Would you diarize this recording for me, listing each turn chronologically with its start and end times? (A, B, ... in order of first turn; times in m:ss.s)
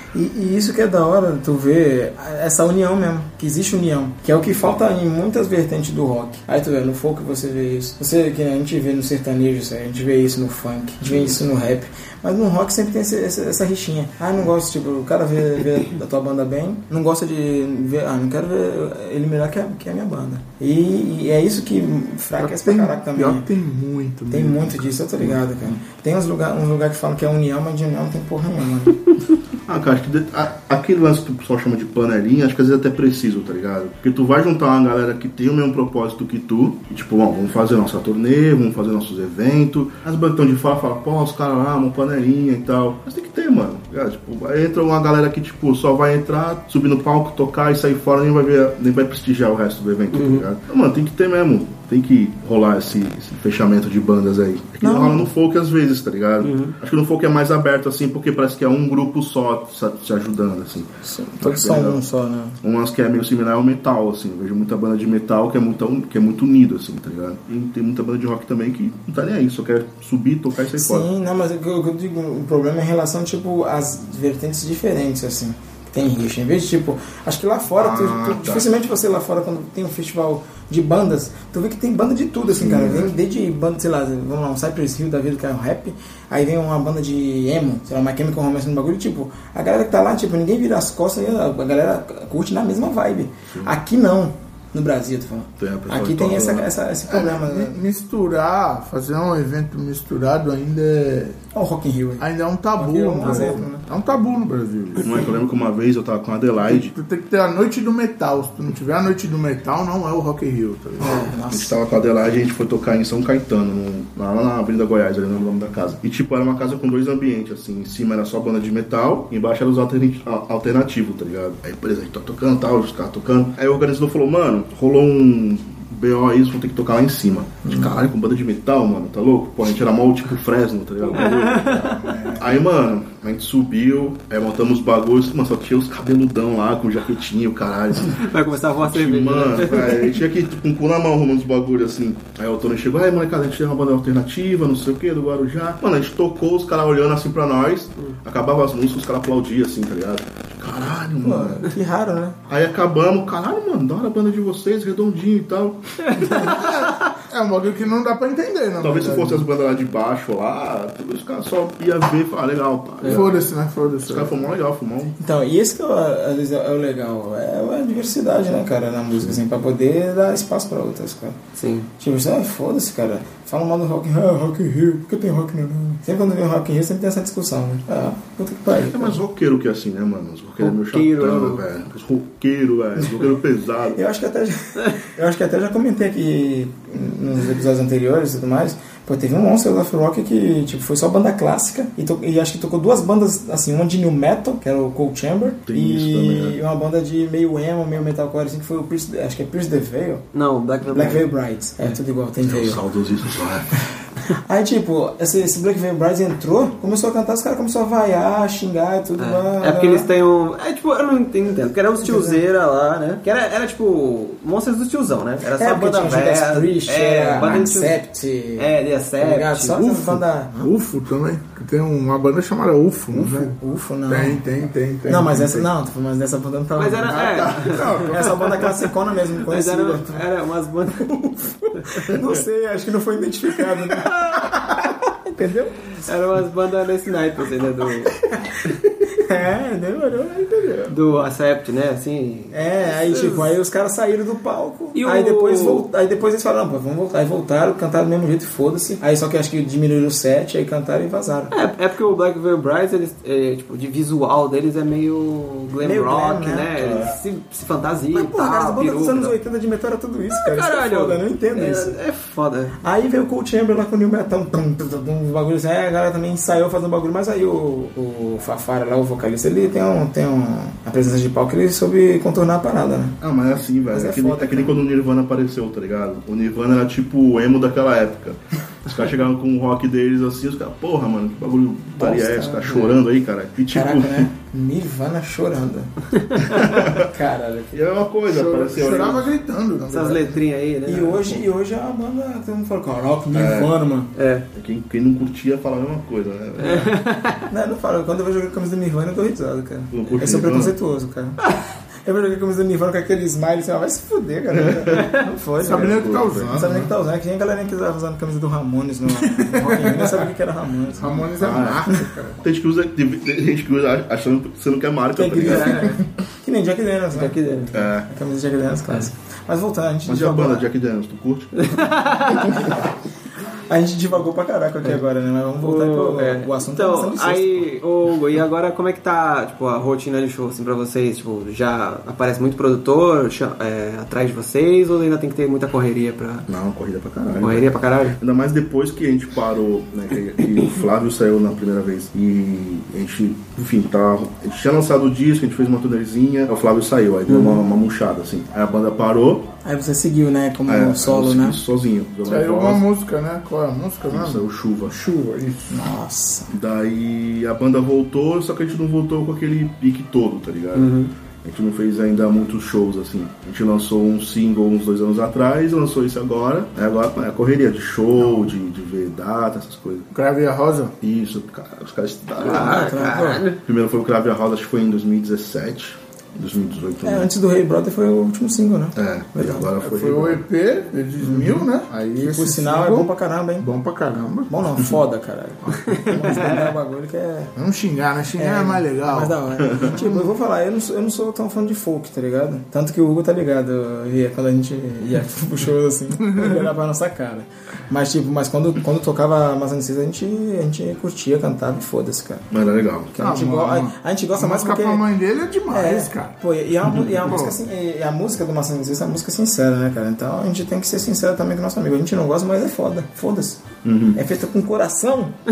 0:00.1-0:23.5 A
0:11.1-0:11.4 B
0:22.4-0:25.0 C
0:24.3-0:29.0 A
0:29.7-1:02.0 B
0:50.1-0:50.5 D
0:54.8-0:55.3 A
0:56.4-0:56.8 D
1:01.0-1:02.6 A
1:02.6-1:11.1 B
1:10.8-1:37.8 A
1:17.8-1:18.8 B
1:22.5-1:23.1 B
1:35.6-1:36.7 B
1:37.1-1:41.4 C
1:41.5-1:43.8 A
1:42.2-1:45.4 C
1:43.2-1:43.5 D
1:45.0-1:46.9 B
1:46.6-1:51.3 C
1:51.0-1:51.8 A
1:51.5-2:18.3 B
2:11.1-2:11.9 D
2:11.7-2:12.6 C
2:18.2-2:20.2 D
2:18.8-2:31.7 B
2:31.2-2:32.4 A
2:32.5-2:36.5 B
2:36.1-2:36.5 D
2:36.2-2:39.5 C
2:38.8-2:43.4 B
2:43.0-2:43.3 D
2:43.1-2:44.5 C
2:44.0-2:45.2 B
2:45.2-2:51.4 A
2:49.1-2:49.4 B
2:51.6-2:51.9 D
2:52.0-2:59.2 A
2:58.8-3:04.0 B
3:00.6-3:01.6 D
3:03.9-3:20.2 A
3:15.7-3:16.6 B
3:20.3-3:21.2 D
3:20.9-3:22.8 A
3:22.4-3:23.8 B
3:24.3-3:30.1 A
3:29.2-3:38.0 D
3:32.0-3:32.4 A
3:35.6-3:40.7 A
3:38.6-3:39.8 D
3:39.8-3:43.6 C
3:43.1-3:44.5 A
3:44.1-3:45.7 C
3:45.0-3:50.3 A
3:46.8-3:48.7 D
3:47.0-3:48.5 C
3:49.4-3:51.2 D
3:51.1-3:55.9 A
3:54.0-3:54.5 D
3:56.0-3:58.2 D
3:58.3-3:58.6 A
3:59.1-4:00.9 A
4:00.9-4:03.5 D
4:02.5-4:11.5 A
4:04.9-4:05.9 D
4:11.5-4:19.4 D
4:15.8-4:17.1 A
4:16.8-4:17.1 B
4:18.1-4:22.0 A
4:20.3-4:22.8 D
4:22.8-4:33.2 A
4:33.2-4:44.3 B
4:33.8-4:34.9 A
4:42.0-4:43.0 A
4:43.7-4:47.8 A
4:46.5-4:47.1 B
4:47.7-4:49.3 B
4:48.3-4:50.4 C
4:49.9-4:51.3 D
4:50.9-4:54.1 A
4:53.3-4:53.7 B
4:54.2-4:54.5 D
4:54.5-4:56.9 B
4:56.6-4:57.4 D
4:57.5-5:01.4 A
4:59.9-5:00.7 B
5:02.0-5:12.0 A
5:04.5-5:05.1 B
5:04.9-5:05.2 D
5:05.6-5:06.9 C
5:05.6-5:06.6 B
5:09.1-5:10.3 C
5:10.9-5:12.4 C
5:11.4-5:11.9 B
5:12.4-5:16.0 B
5:15.2-5:17.4 A
5:15.4-5:16.0 D
5:17.1-5:17.9 D
5:17.7-5:18.1 B
5:18.0-5:20.7 A
5:20.1-5:22.3 B
5:21.6-5:22.7 D
5:22.5-5:22.9 A
5:23.7-5:27.7 A
5:25.6-5:36.5 D
5:36.5-5:49.5 B
5:37.4-5:38.2 D
5:47.3-5:47.6 D
5:49.6-5:51.6 A
5:50.7-5:52.8 B
5:52.3-5:55.9 C
5:54.1-5:55.0 B
5:55.7-5:56.5 A
5:56.5-6:00.9 B
6:00.8-6:01.1 D
6:01.4-6:10.1 B
6:08.2-6:08.5 C
6:10.1-6:10.9 C
6:11.0-6:12.9 B
6:12.4-6:13.6 D
6:12.4-6:13.4 A
6:13.6-6:17.3 B
6:17.0-6:19.7 A
6:19.0-6:20.4 B
6:19.8-6:24.5 C
6:21.2-6:21.7 B
6:22.2-6:23.7 A
6:24.5-6:27.5 A
6:25.9-6:26.7 D
6:26.1-6:26.5 C
6:27.6-6:30.3 C
6:28.4-6:42.5 A
6:29.6-6:30.0 B
6:36.2-6:36.7 C
6:42.5-6:43.1 B
6:43.1-6:45.0 A
6:43.2-6:46.4 C
6:45.7-6:53.6 A
6:46.8-6:47.3 B
6:47.2-6:47.6 C
6:53.8-6:54.2 B
6:54.2-6:55.4 A